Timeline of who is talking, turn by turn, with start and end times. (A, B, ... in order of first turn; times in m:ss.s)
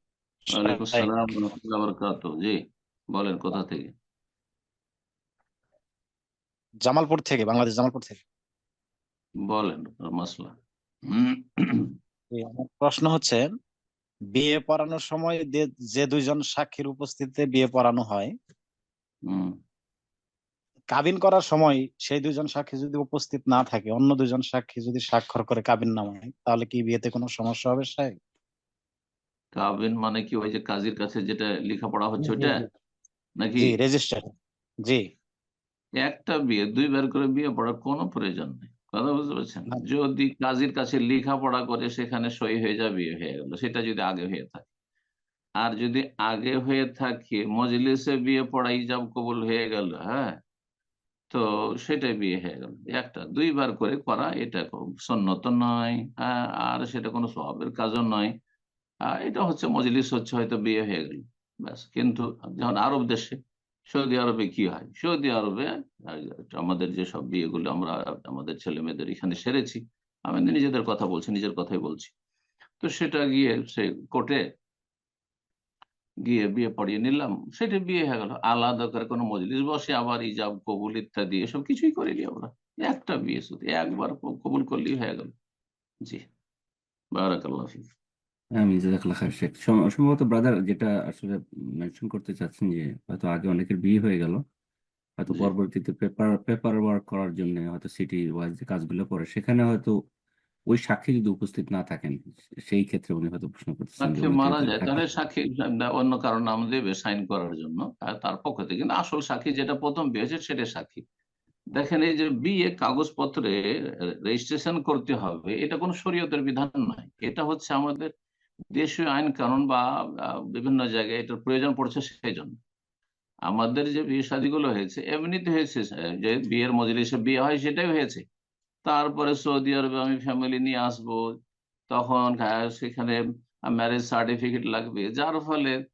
0:00.5-0:01.5 A
0:00.6-0:02.6 B
0:03.1-0:03.9 B
0:06.8-0:08.2 A
0:09.5-0:10.5 B
0:11.1-0:11.9 B
0:12.3-0:13.5 A
0:14.3-0:18.3 A
0:19.3-0:19.6 B
0:20.9-0:28.2 A
0:29.6-0:32.6 B
0:32.2-0:32.6 A
0:33.4-0:33.7 B
0:33.6-0:34.3 A
0:36.0-0:44.7 B
0:45.6-0:50.4 B
0:51.3-0:58.3 B
0:59.1-1:12.1 B
1:12.8-1:14.4 B
1:16.2-1:25.3 B
1:27.1-1:27.8 B
1:28.6-1:34.4 C
1:35.2-1:40.0 C
1:40.7-1:45.1 C
1:44.0-1:51.0 B
1:51.8-1:53.6 B
1:54.3-1:58.1 B
1:58.7-1:59.8 B
2:00.5-2:02.6 B
2:03.5-2:08.2 B
2:08.8-2:11.2 B
2:11.9-2:15.8 B